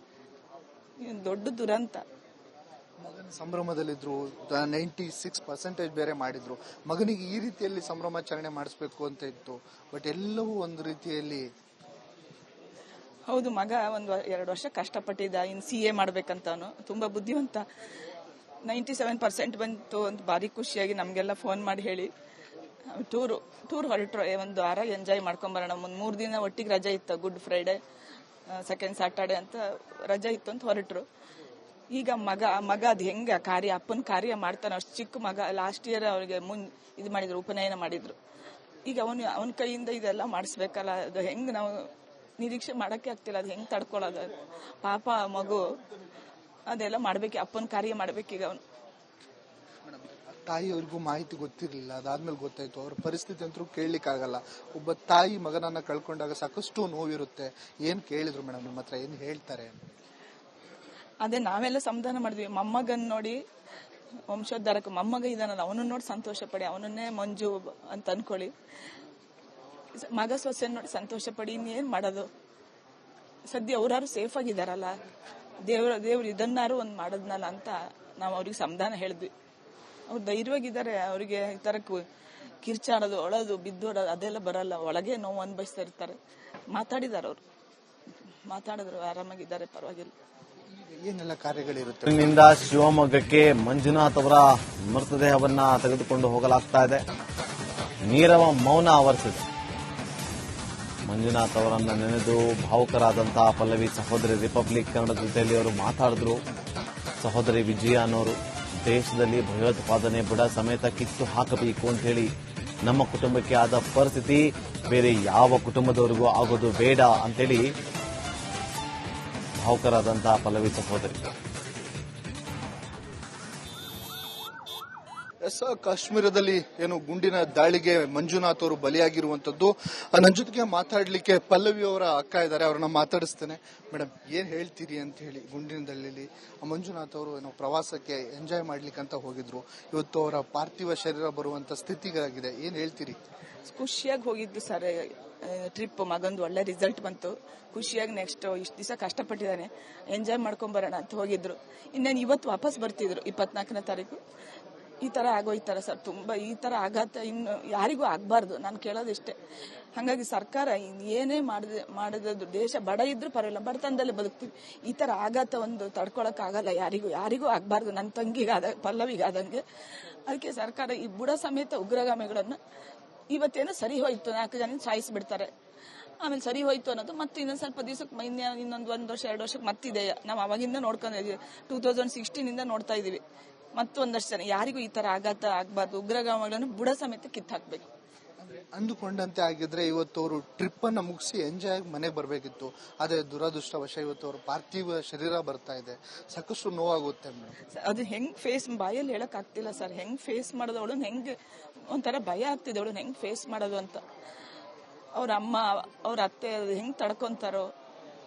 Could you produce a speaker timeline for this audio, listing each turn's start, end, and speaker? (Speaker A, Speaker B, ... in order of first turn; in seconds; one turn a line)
Speaker A: 1.0-2.0
Speaker B: 3.0-11.4
Speaker A: 13.3-17.6
Speaker A: 18.6-22.1
Speaker A: 22.9-27.8
Speaker A: 28.6-31.1
Speaker A: 31.9-38.2
Speaker A: 38.9-41.9
Speaker A: 42.4-45.6
Speaker A: 46.7-48.6
Speaker B: 49.9-59.8
Speaker A: 61.2-63.4
Speaker A: 64.3-68.5
Speaker A: 69.9-72.3
Speaker A: 73.5-74.9
Speaker A: 75.7-79.3
Speaker A: 80.1-82.0
Speaker A: 82.6-86.2
Speaker A: 86.7-87.4
Speaker A: 88.5-90.1
Speaker B: 90.7-92.3
Speaker C: 92.1-97.0
Speaker C: 98.0-99.5
Speaker C: 101.1-106.4
Speaker C: 107.2-112.3
Speaker C: 112.8-117.7
Speaker C: 119.6-121.3
Speaker B: 125.4-143.2
Speaker A: 143.6-154.2
Speaker A: 155.0-159.3
Speaker A: 159.9-169.6
Speaker A: 170.3-172.6
Speaker A: 173.3-175.5
Speaker A: 176.2-183.2
Speaker A: 183.8-187.9
Speaker B: 188.4-197.5
Speaker A: 197.7-201.3
Speaker A: 201.9-204.0
Speaker A: 205.2-207.7